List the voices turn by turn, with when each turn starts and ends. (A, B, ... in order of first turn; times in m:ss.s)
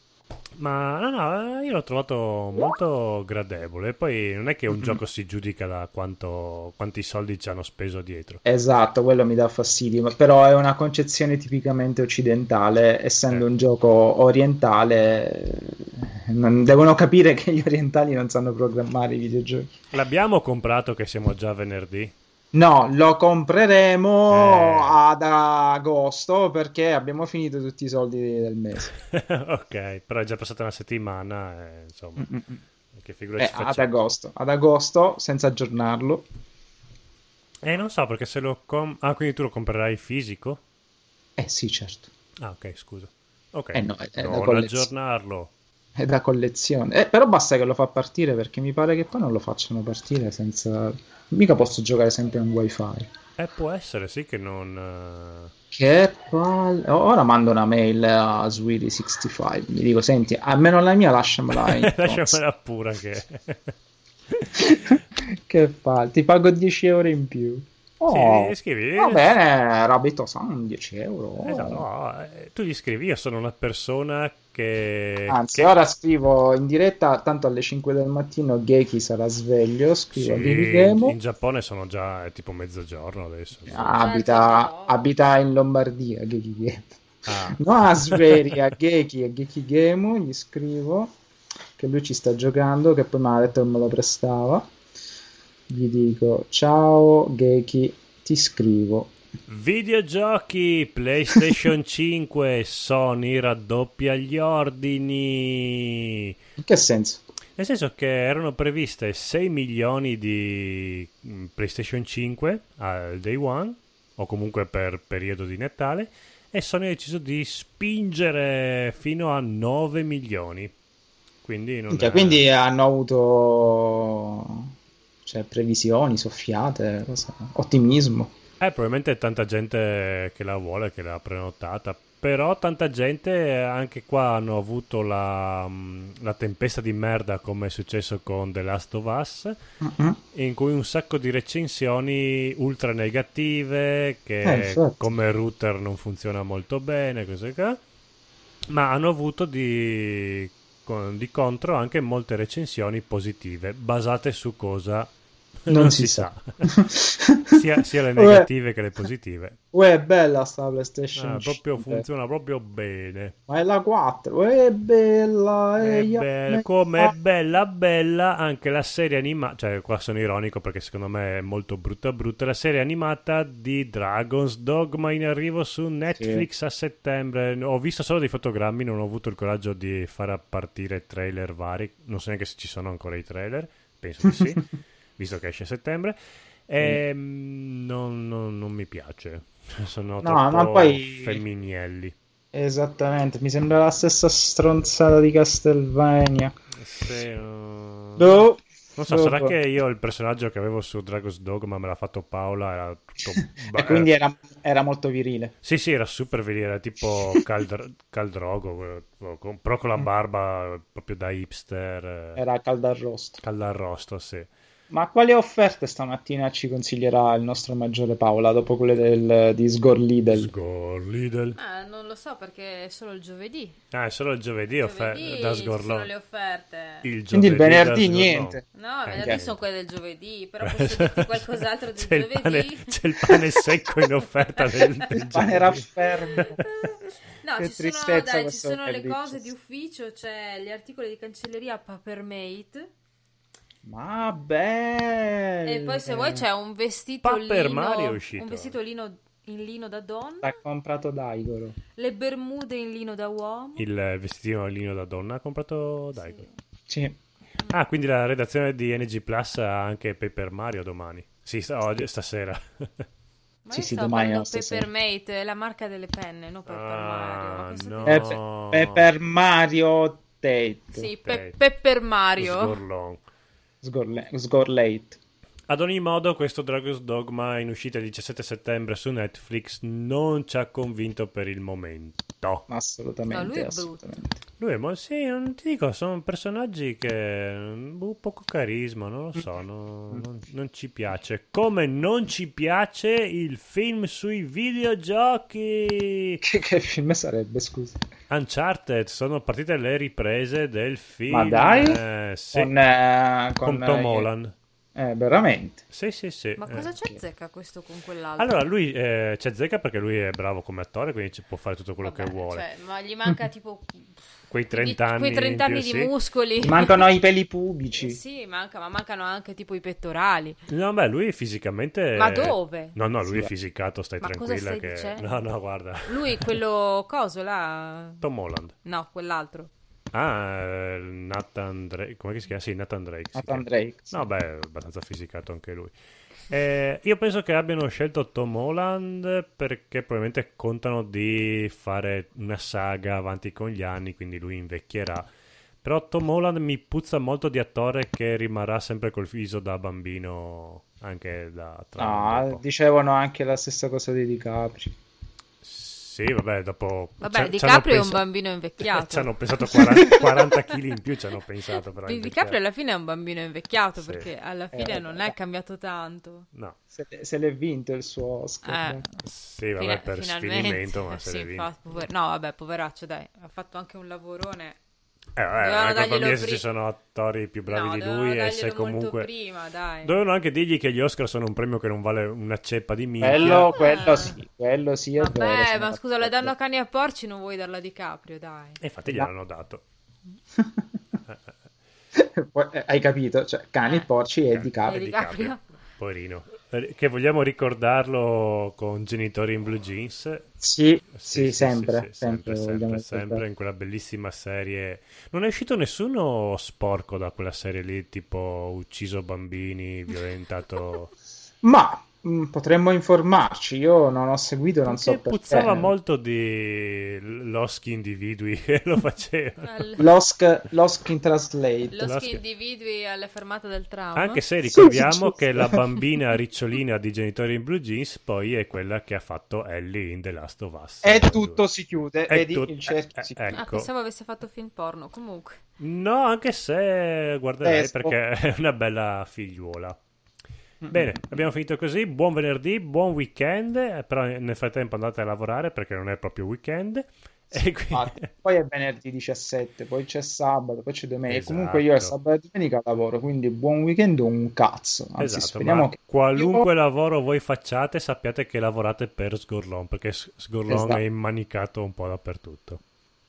0:00.6-0:08.4 A
0:04.7-0:05.0 B
0:08.4-0:19.7 B
0:19.9-0:22.1 A
0:22.5-0:28.9 B
0:24.3-0:25.0 A
0:29.1-0:32.3 A
0:32.2-0:32.6 B
0:32.9-0:33.9 A
0:33.4-0:36.2 B
0:37.6-0:40.6 A
0:41.4-0:42.1 B
0:42.4-0:45.5 A
0:43.7-0:44.9 B
0:46.0-0:53.1 B
0:53.4-0:55.5 A
0:55.7-1:02.4 B
1:01.5-1:03.7 A
1:04.6-1:11.8 B
1:08.1-1:09.4 A
1:11.4-1:15.8 A
1:15.3-1:21.2 B
1:20.1-1:24.0 A
1:23.7-1:27.0 B
1:23.8-1:25.1 C
1:27.3-1:28.6 A
1:27.6-1:31.1 B
1:31.8-1:34.7 B
1:35.7-1:39.1 B
1:39.5-1:46.3 A
1:46.6-1:47.2 B
1:47.6-2:00.7 A
2:01.4-2:02.5 A
2:01.9-2:04.7 B
2:05.2-2:08.3 B
2:08.6-2:19.6 A
2:19.8-2:20.2 B
2:20.3-2:27.8 A
2:24.4-2:25.0 B
2:28.7-2:35.1 A
2:35.7-2:36.6 A
2:35.7-2:37.6 B
2:37.5-2:39.6 A
2:38.2-2:38.5 B
2:39.7-2:42.1 B
2:41.2-2:43.4 A
2:43.5-2:47.2 B
2:45.8-3:06.2 A
2:56.2-2:56.4 B
3:06.7-3:12.2 A
3:10.2-3:11.4 B
3:12.5-3:16.5 B
3:16.8-3:24.1 A
3:18.2-3:19.6 B
3:23.7-3:25.5 B
3:25.6-3:32.4 A
3:32.4-3:33.4 B
3:33.4-3:34.5 A
3:34.9-3:40.5 B
3:40.3-3:41.6 A
3:41.6-3:43.8 C
3:43.9-3:46.1 A
3:44.8-3:47.1 C
3:47.0-3:49.6 A
3:47.3-3:48.6 B
3:48.7-3:53.4 C
3:49.2-3:49.4 B
3:50.6-3:55.9 A
3:54.6-3:55.1 C
3:55.2-3:56.6 B
3:56.3-4:02.9 C
3:57.6-3:59.5 B
4:03.8-4:06.5 B
4:05.6-4:10.6 C
4:07.2-4:08.8 A
4:10.4-4:11.8 B
4:12.0-4:13.8 C
4:13.8-4:16.4 A
4:16.2-4:16.4 C
4:16.9-4:17.2 B
4:17.7-4:23.0 A
4:23.7-4:28.4 C
4:23.7-4:24.9 B
4:26.7-4:29.1 A
4:28.0-4:31.1 B
4:30.9-4:32.8 C
4:31.2-4:31.5 A
4:32.4-4:33.2 A
4:33.8-4:35.2 B
4:35.7-4:42.7 A
4:42.7-4:44.4 B
4:43.3-4:44.2 C
4:44.6-4:56.4 A
4:56.4-4:58.0 B
4:58.3-5:02.7 A
5:01.3-5:02.0 B
5:02.5-5:04.3 B
5:03.6-5:04.5 A
5:05.0-5:05.8 B
5:05.9-5:06.9 A
5:06.6-5:08.7 C
5:08.4-5:12.7 A
5:12.0-5:14.2 C
5:14.5-5:16.1 A
5:14.7-5:17.1 C
5:16.6-5:18.2 B
5:18.0-5:20.6 C
5:20.7-5:26.6 A
5:22.2-5:23.0 C
5:23.3-5:23.5 B
5:24.2-5:25.4 C
5:26.1-5:28.2 C
5:28.2-5:28.7 A
5:28.8-5:29.7 C
5:30.1-5:35.9 A
5:33.3-5:34.3 B
5:36.5-5:45.2 A
5:45.8-5:52.6 A
5:52.0-5:54.9 B
5:55.6-5:58.2 A
5:57.2-6:00.5 C
5:58.8-6:02.6 A
6:02.0-6:06.5 C
6:04.0-6:04.3 A
6:04.7-6:05.4 B
6:06.9-6:09.1 B
6:08.6-6:09.2 C
6:09.2-6:11.7 A
6:09.8-6:14.8 C
6:15.4-6:19.3 A
6:15.6-6:16.6 C
6:17.7-6:20.1 C
6:20.0-6:23.7 A
6:23.2-6:26.5 B
6:23.3-6:24.4 C
6:25.2-6:28.8 C
6:28.8-6:29.8 A
6:30.6-6:30.8 B
6:32.2-6:35.0 B
6:33.8-6:34.1 C
6:34.5-6:40.5 A
6:34.9-6:35.6 C
6:40.6-6:43.4 B
6:41.1-6:51.1 A
6:51.6-6:55.9 B
6:54.9-6:59.8 A
6:59.6-7:00.1 C
7:00.0-7:02.1 B
7:01.9-7:04.4 C
7:02.0-7:02.4 A
7:04.2-7:11.7 A
7:04.7-7:05.8 B
7:11.0-7:13.6 B
7:12.3-7:13.9 A
7:13.5-7:15.6 C
7:15.8-7:20.0 A
7:17.6-7:18.2 B
7:20.8-7:21.2 B
7:20.9-7:28.3 A
7:27.9-7:36.7 B
7:31.3-7:32.2 A
7:35.2-7:42.8 A
7:40.7-7:41.0 B